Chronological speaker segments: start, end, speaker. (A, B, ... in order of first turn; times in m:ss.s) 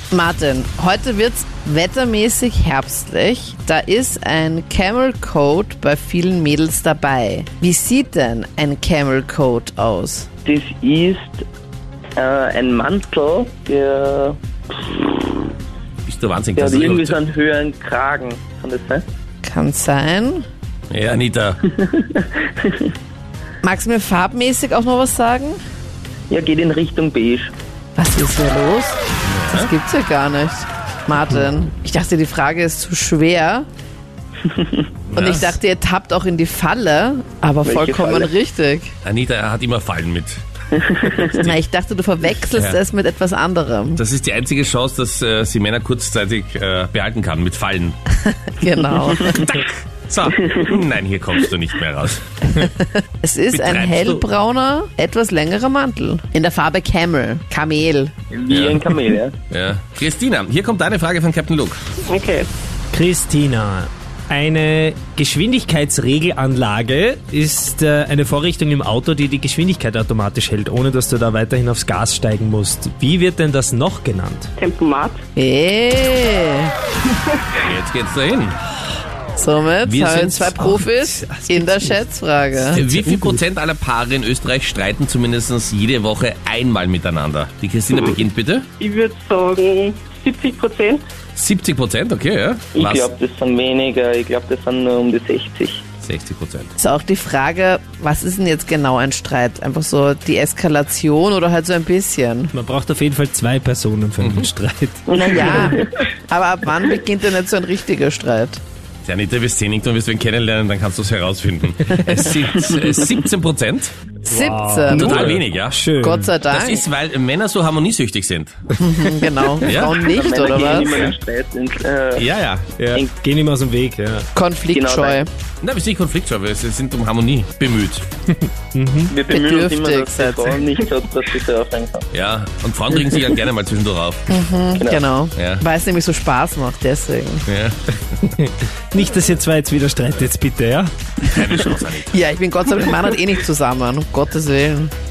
0:00.1-0:10.3 A
0:10.4-0:11.4 B
0:12.2-0:15.5 B
0:16.0-0:17.2 C
0:16.5-0:19.0 B
0:19.4-0:20.4 A
0:20.9-0:21.6 C
0:21.7-0:22.9 B
0:23.6-0:25.6 A
0:26.3-0:27.5 B
0:28.0-0:33.6 A
0:29.2-0:29.7 C
0:34.5-0:34.8 B
0:35.1-0:35.6 C
0:35.1-0:38.9 A
0:37.6-0:38.3 B
0:39.0-0:40.4 C
0:40.8-0:41.2 B
0:41.2-0:41.6 C
0:41.4-0:44.0 A
0:44.0-0:48.0 C
0:48.3-0:49.6 A
0:50.1-0:52.2 C
0:52.6-0:58.1 A
0:53.5-0:54.2 C
0:58.3-0:59.4 B
0:58.5-0:58.9 C
0:59.5-1:01.8 C
1:02.1-1:02.5 D
1:02.9-1:14.5 E
1:14.6-1:15.2 D
1:15.4-1:16.7 A
1:17.6-1:18.6 C
1:19.4-1:22.8 A
1:19.8-1:21.9 E
1:22.6-1:23.4 E
1:22.7-1:28.6 C
1:28.8-1:31.0 D
1:31.4-1:33.1 C
1:32.7-1:35.8 B
1:36.0-1:36.7 C
1:36.8-1:42.5 A
1:42.5-1:45.7 E
1:44.2-1:44.5 C
1:45.1-1:48.6 A
1:45.1-1:45.8 B
1:49.0-1:53.9 C
1:54.2-1:55.4 A
1:54.3-1:56.3 E
1:54.9-1:55.8 C
1:56.0-1:56.8 A
1:56.5-1:58.6 C
1:58.8-2:01.1 A
1:59.6-2:00.0 C
2:00.1-2:02.3 B
2:00.6-2:01.0 C
2:02.2-2:02.7 C
2:02.8-2:04.3 E
2:04.3-2:05.3 A
2:04.7-2:05.2 B
2:05.6-2:08.0 C
2:08.3-2:09.1 E
2:09.1-2:12.1 B
2:09.3-2:10.6 A
2:12.1-2:14.3 C
2:14.3-2:17.4 A
2:14.8-2:15.0 B
2:15.4-2:15.6 C
2:17.5-2:17.9 C
2:18.3-2:20.9 E
2:21.2-2:22.2 C
2:21.6-2:24.9 A